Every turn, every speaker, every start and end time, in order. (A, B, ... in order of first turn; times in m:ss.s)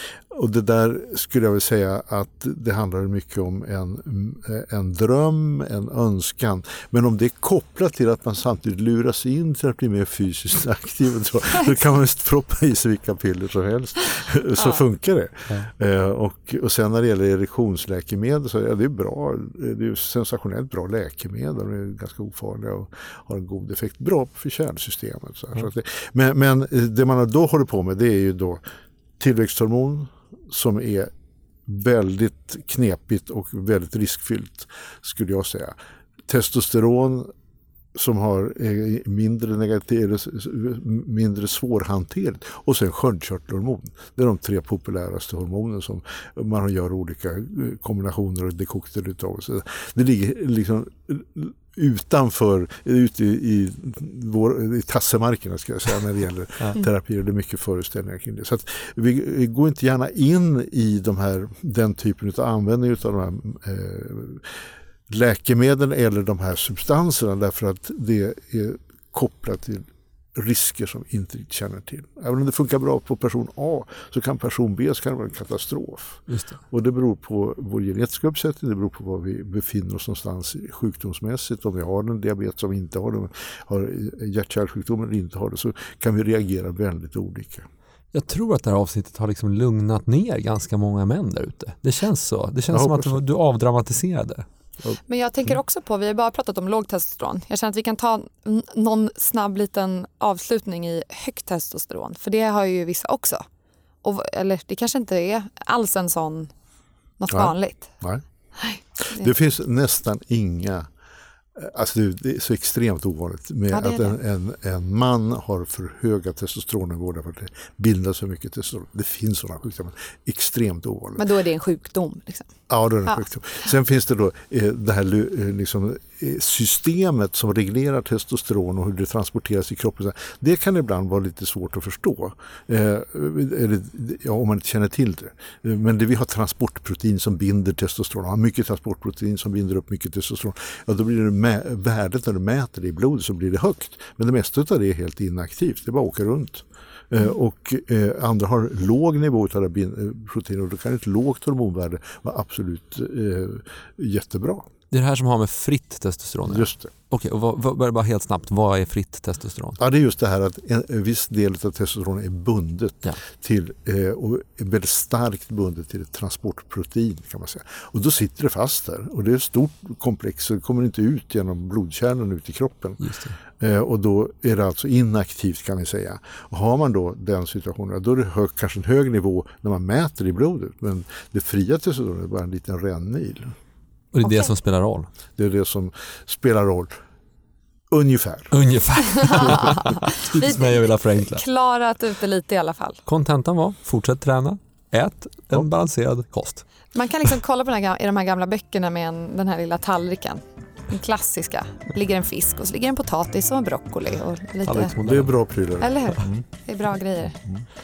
0:00.3-0:28.6 A
0:29.2-0:31.1 A
0:31.7-0:35.8 A
0:36.3-0:37.3 A
0:37.9-1:27.6 A
1:16.3-1:16.6 B
1:28.1-1:34.4 B
1:32.7-1:33.2 A
1:35.1-1:43.4 C
1:44.0-1:46.5 C
1:47.2-1:47.9 C
1:47.3-1:48.2 A
1:48.6-1:49.3 C
1:49.0-1:50.9 A
1:51.5-2:01.2 A
1:53.7-1:54.2 C
2:01.2-2:02.6 C
2:02.7-2:34.6 A
2:34.9-2:39.8 B
2:36.4-2:36.9 A
2:39.8-3:03.5 A
2:53.0-2:53.4 B
3:04.1-3:05.1 B
3:05.4-3:07.0 A
3:07.9-3:08.5 A
3:08.5-3:11.4 B
3:09.0-3:13.0 C
3:13.0-3:16.6 B
3:16.9-3:25.0 C
3:24.6-3:25.3 B
3:25.0-3:26.4 A
3:25.8-3:27.4 C